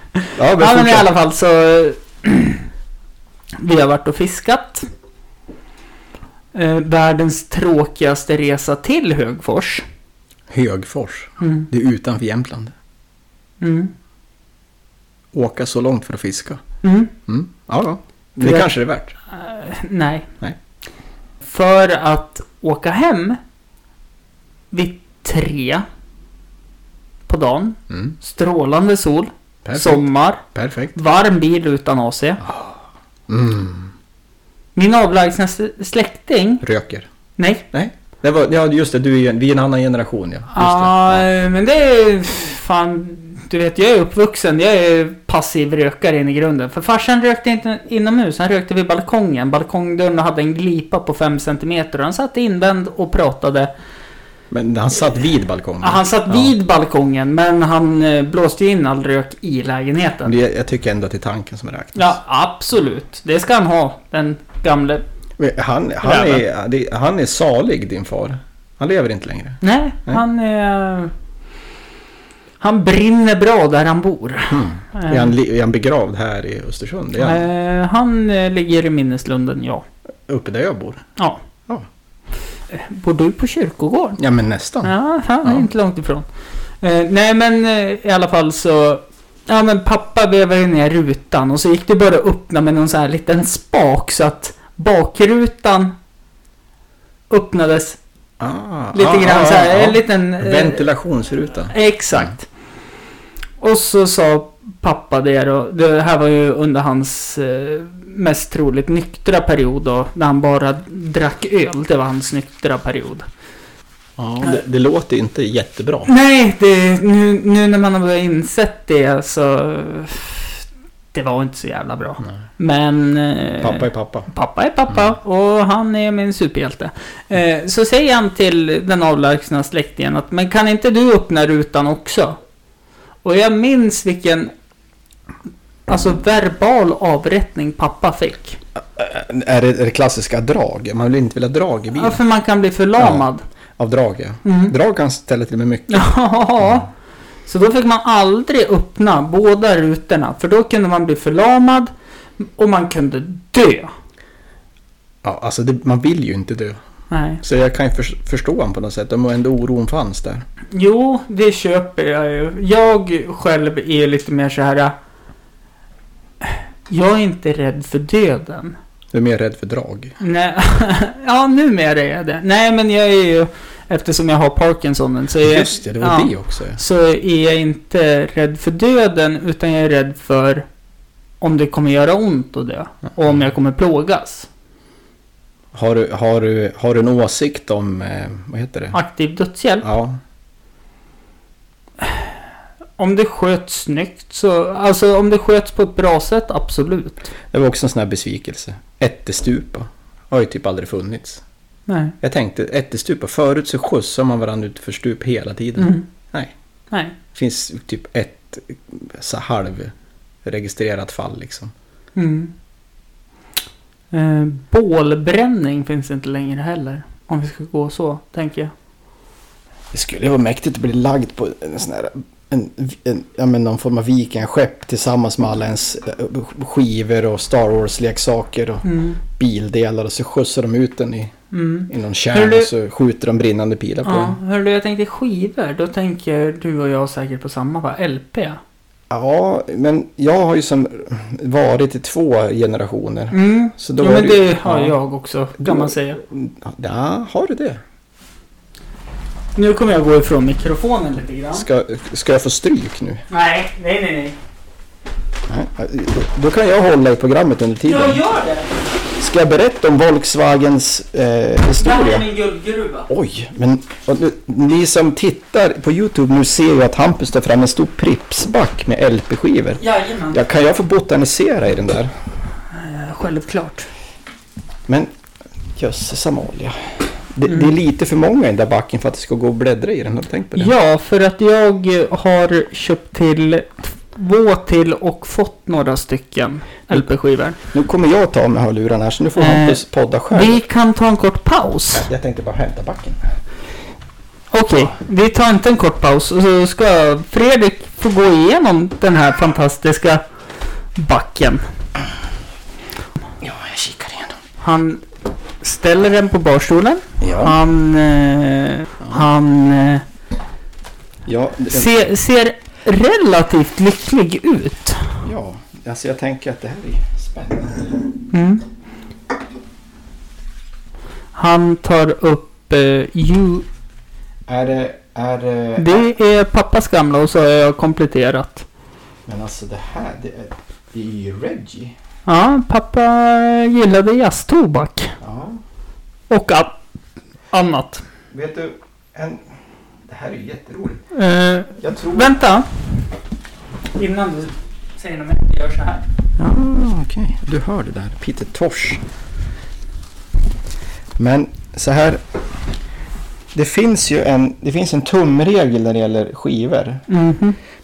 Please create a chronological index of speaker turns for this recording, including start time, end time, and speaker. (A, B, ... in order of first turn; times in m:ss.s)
0:00.3-0:02.6 A
0:00.4-0:01.1 B
0:03.6-0:04.9 A
0:06.5-0:09.8 A
0:10.5-0:12.7 B
0:11.4-0:11.7 A
0:13.6-0:13.9 A
0:15.3-0:16.6 B
0:16.8-0:17.1 A
0:17.3-0:19.2 B
0:18.4-0:18.7 A
0:19.3-0:20.3 A
0:21.4-0:23.4 A
0:24.7-0:25.8 A
0:27.3-0:30.4 A
0:27.9-0:28.2 B
0:29.6-0:31.0 B
0:31.0-0:32.4 A
0:32.4-0:32.8 B
0:33.3-0:33.9 B
0:34.8-0:36.6 A
0:36.6-0:37.1 B
0:37.4-0:37.6 A
0:37.7-0:41.3 B
0:40.5-0:53.7 A
0:54.5-0:56.5 B
0:55.8-1:00.3 A
1:00.2-1:02.2 B
1:02.0-1:05.0 A
1:05.4-1:10.2 B
1:06.0-1:06.4 A
1:09.6-1:11.1 A
1:12.6-1:15.3 A
1:14.5-1:17.4 B
1:17.2-1:19.8 A
1:20.3-1:21.0 B
1:22.7-1:24.2 A
1:24.2-1:24.9 B
1:24.8-1:26.3 A
1:25.4-1:25.7 B
1:26.8-1:36.0 A
1:37.3-1:38.0 A
1:38.4-1:42.3 B
1:38.9-1:40.8 A
1:41.7-1:42.5 A
1:43.6-1:53.3 A
1:54.2-1:56.1 B
1:56.1-2:00.6 A
2:01.1-2:12.4 A
2:03.6-2:04.3 B
2:13.2-2:14.5 A
2:15.9-2:18.6 A
2:18.8-2:22.2 B
2:21.9-2:23.4 A
2:23.0-2:23.3 B
2:23.8-2:26.1 B
2:24.4-2:24.7 A
2:25.9-2:26.9 A
2:27.5-2:33.9 A
2:35.2-2:36.8 B
2:37.1-2:37.4 A
2:37.4-2:40.5 B
2:40.7-2:45.0 A
2:46.4-2:48.8 A
2:49.1-2:50.2 B
2:50.2-3:00.7 A
2:55.4-2:56.8 B
3:01.4-3:04.5 A
3:05.7-3:09.0 B
3:08.9-3:09.9 A
3:09.8-3:10.2 B
3:13.0-3:17.3 A
3:17.5-3:21.4 B
3:21.9-3:22.2 A
3:22.2-3:26.5 B
3:25.8-3:26.1 A
3:27.3-3:29.9 B
3:30.4-3:31.7 B
3:32.2-3:32.5 A
3:34.1-3:38.7 A
3:39.9-3:51.3 B
3:48.8-3:49.2 A
3:51.5-3:52.7 A
3:51.9-3:54.4 B
3:54.0-3:58.6 A
3:59.1-4:05.0 B
4:03.3-4:06.2 A
4:05.6-4:07.8 B
4:09.6-4:11.7 A
4:11.5-4:13.2 B
4:13.3-4:14.4 A
4:15.5-4:18.2 B
4:17.8-4:18.7 A
4:19.2-4:22.3 B
4:21.8-4:23.1 A
4:23.1-4:32.1 B
4:29.8-4:30.4 A
4:32.7-4:33.9 A
4:35.8-4:40.7 B
4:40.6-4:47.6 A
4:47.7-4:50.6 B
4:49.4-4:49.8 A
4:50.3-4:52.1 A
4:51.9-4:53.3 B
4:54.5-5:00.2 A
5:01.0-5:01.6 A
5:03.4-5:04.4 B
5:04.6-5:05.0 A
5:05.6-5:10.0 A
5:07.2-5:07.6 B
5:11.3-5:12.1 B
5:11.7-5:15.2 A
5:15.2-5:18.1 B
5:18.3-5:18.6 A
5:21.4-5:23.7 A
5:24.5-5:26.0 B
5:25.8-5:28.7 A
5:29.3-5:32.0 B
5:32.3-5:35.2 A
5:35.2-5:35.6 B
5:36.3-5:36.8 A
5:37.5-5:38.0 A
5:38.3-5:39.4 B
5:40.1-5:41.0 B
5:41.1-5:42.7 A
5:41.8-5:42.4 B
5:44.0-5:46.0 A
5:46.4-5:49.0 B
5:51.2-5:52.2 B
5:53.5-5:57.1 B
5:57.1-5:57.6 A